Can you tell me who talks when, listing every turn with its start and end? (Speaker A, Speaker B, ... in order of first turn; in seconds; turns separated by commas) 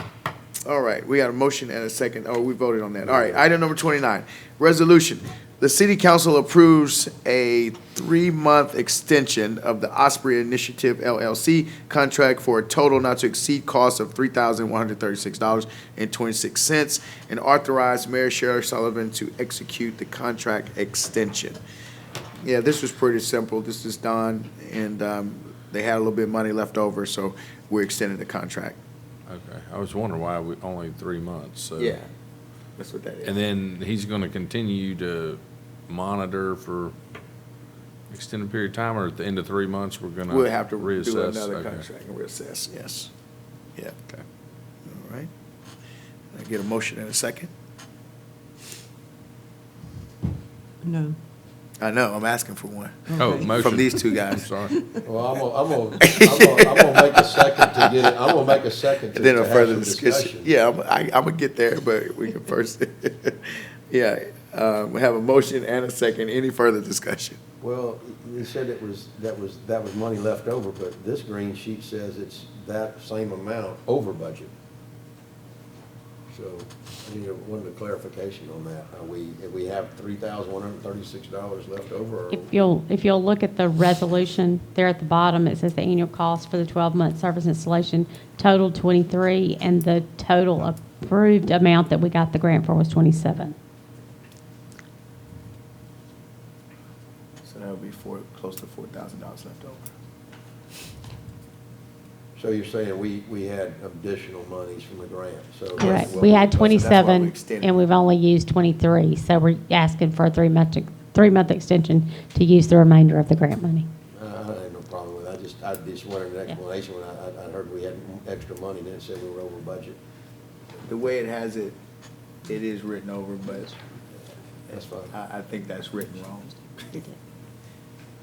Speaker A: 0.7-21.6, Speaker B: 3.0-3.4, Speaker A: 22.4-28.8, Speaker C: 29.3-32.0, Speaker A: 31.8-32.1, Speaker A: 32.8-33.4, Speaker C: 33.2-36.9, Speaker C: 38.1-41.9, Speaker A: 40.3-43.1, Speaker A: 44.9-45.3, Speaker A: 46.3-47.5, Speaker A: 51.8-54.5, Speaker C: 53.1-54.8, Speaker B: 55.0-60.5, Speaker A: 56.0-57.9, Speaker A: 59.1-67.4, Speaker B: 67.6-74.5, Speaker B: 76.3-82.5, Speaker D: 82.3-93.5, Speaker A: 97.4-99.8, Speaker B: 102.3-106.8, Speaker A: 105.8-107.7, Speaker D: 105.8-113.8, Speaker B: 114.2-120.0, Speaker A: 120.9-121.8, Speaker A: 122.5-123.8, Speaker B: 124.7-125.1, Speaker A: 125.1-127.1